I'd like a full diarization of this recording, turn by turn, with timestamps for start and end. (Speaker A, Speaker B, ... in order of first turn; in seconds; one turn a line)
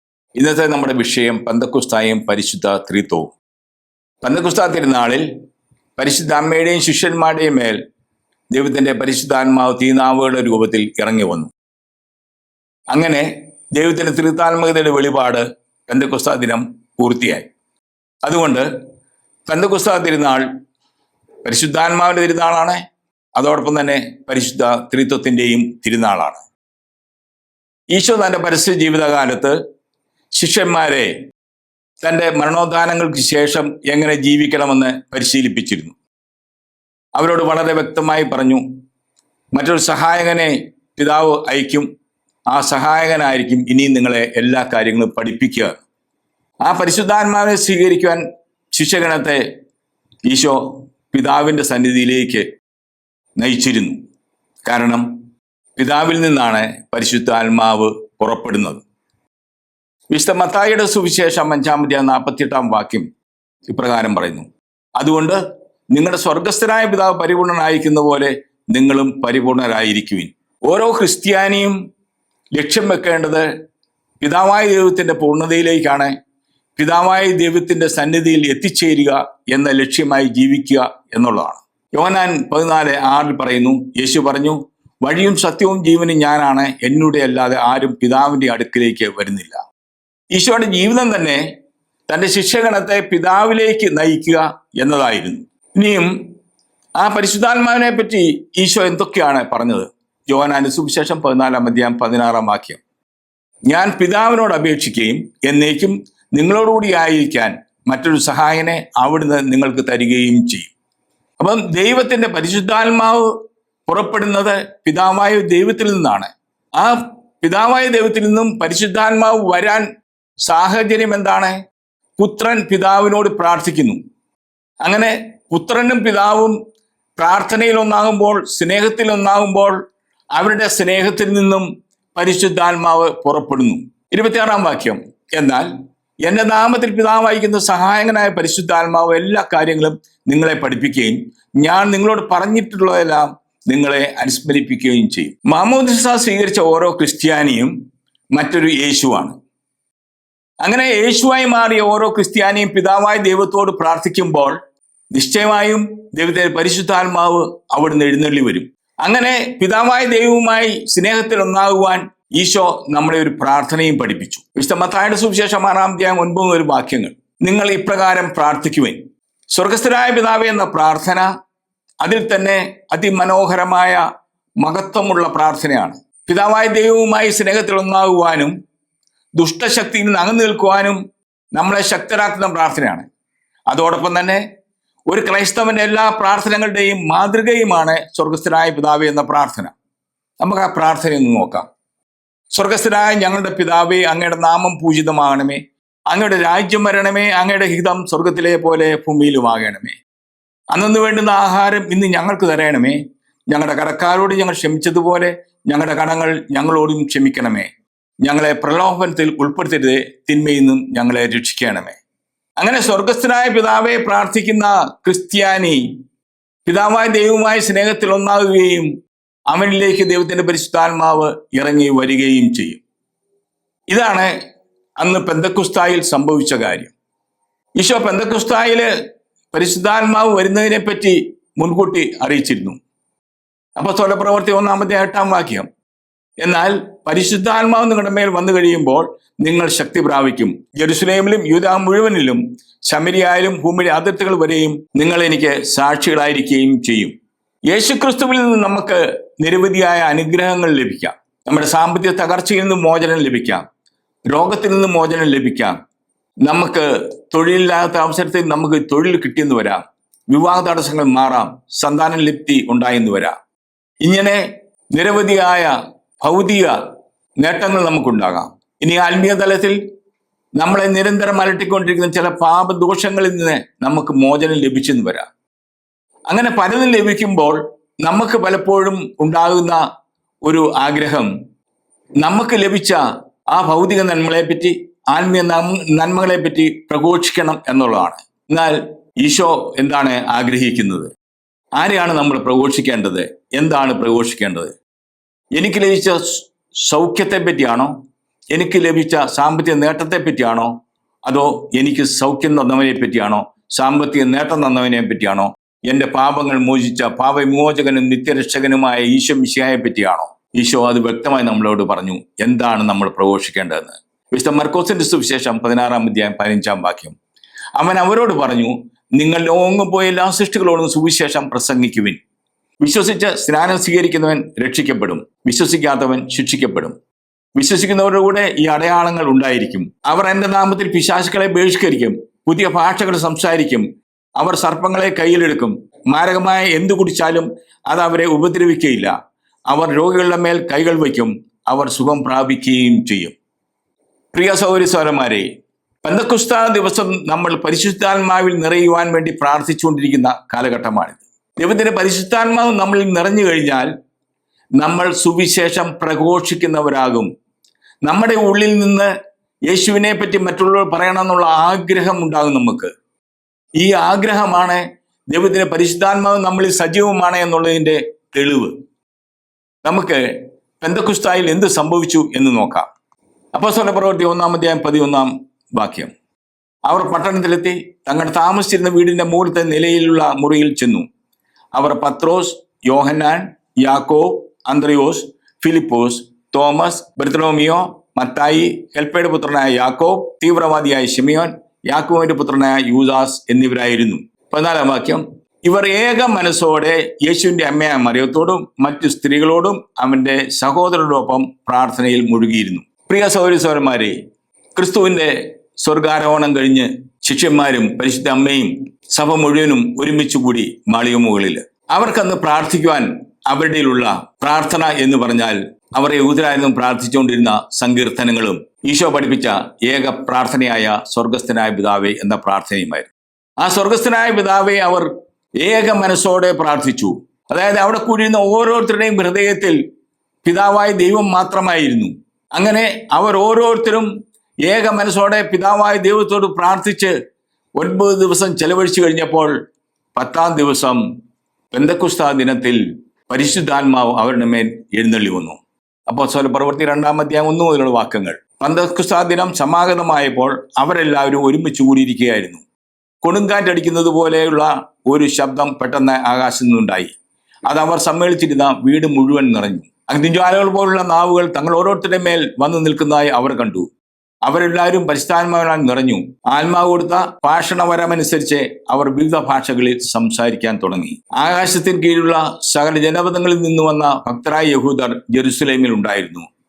Speaker A: 0.3-3.3
Speaker A: 4.2-5.3
Speaker A: 6.0-7.8
Speaker A: 8.5-11.5
Speaker A: 12.9-17.5
Speaker A: 18.2-18.7
Speaker A: 19.5-20.4
Speaker A: 21.4-22.8
Speaker A: 23.4-26.4
Speaker A: 27.9-29.6
Speaker A: 30.4-31.1
Speaker A: 32.0-36.0
Speaker A: 37.1-38.6
Speaker A: 39.5-41.9
Speaker A: 42.5-45.8
Speaker A: 46.6-49.5
Speaker A: 50.3-52.5
Speaker A: 53.4-54.0
Speaker A: 54.6-55.1
Speaker A: 55.8-58.8
Speaker A: 60.1-63.1
Speaker A: 63.7-64.5
Speaker A: 65.0-65.4
Speaker A: 65.9-71.7
Speaker A: 72.5-73.5
Speaker A: 74.2-76.1
Speaker A: 76.8-89.6
Speaker A: 90.3-91.4
Speaker A: 92.1-96.2
Speaker A: 97.0-102.8
Speaker A: 103.7-110.7
Speaker A: 111.4-113.3
Speaker A: 113.9-119.8
Speaker A: 120.4-121.5
Speaker A: 122.2-124.0
Speaker A: 124.8-126.6
Speaker A: 127.2-129.8
Speaker A: 130.3-135.7
Speaker A: 136.2-147.7
Speaker A: 148.3-149.3
Speaker A: 150.6-154.6
Speaker A: 155.1-169.0
Speaker A: 169.5-171.3
Speaker A: 172.0-174.0
Speaker A: 174.6-178.5
Speaker A: 179.4-181.0
Speaker A: 181.5-183.1
Speaker A: 183.7-184.4
Speaker A: 185.1-189.7
Speaker A: 190.4-191.7
Speaker A: 192.5-200.0
Speaker A: 200.7-203.0
Speaker A: 203.5-207.7
Speaker A: 208.2-212.0
Speaker A: 212.6-215.9
Speaker A: 216.7-218.9
Speaker A: 219.5-222.8
Speaker A: 223.9-224.3
Speaker A: 225.0-226.9
Speaker A: 227.8-228.9
Speaker A: 229.5-232.8
Speaker A: 233.8-235.7
Speaker A: 236.4-247.1
Speaker A: 247.7-253.6
Speaker A: 254.3-255.8
Speaker A: 256.4-263.4
Speaker A: 264.0-266.8
Speaker A: 267.4-269.8
Speaker A: 270.6-275.2
Speaker A: 276.3-279.8
Speaker A: 280.4-281.3
Speaker A: 282.2-283.0
Speaker A: 283.5-291.1
Speaker A: 291.8-294.7
Speaker A: 295.5-297.9
Speaker A: 298.5-300.7
Speaker A: 301.2-317.1
Speaker A: 317.8-322.2
Speaker A: 322.8-326.9
Speaker A: 327.6-333.9
Speaker A: 334.4-339.1
Speaker A: 339.7-343.4
Speaker A: 344.3-345.5
Speaker A: 346.0-353.9
Speaker A: 354.8-357.3
Speaker A: 358.0-359.1
Speaker A: 359.6-362.9
Speaker A: 363.8-368.8
Speaker A: 369.8-370.2
Speaker A: 370.8-372.9
Speaker A: 373.5-376.1
Speaker A: 376.8-381.1
Speaker A: 381.8-404.2
Speaker A: 404.8-423.1
Speaker A: 423.6-429.8
Speaker A: 430.4-434.1
Speaker A: 434.6-437.1
Speaker A: 437.8-439.5
Speaker A: 440.1-441.0
Speaker A: 441.7-452.6
Speaker A: 453.2-457.1
Speaker A: 457.7-463.9
Speaker A: 464.4-476.4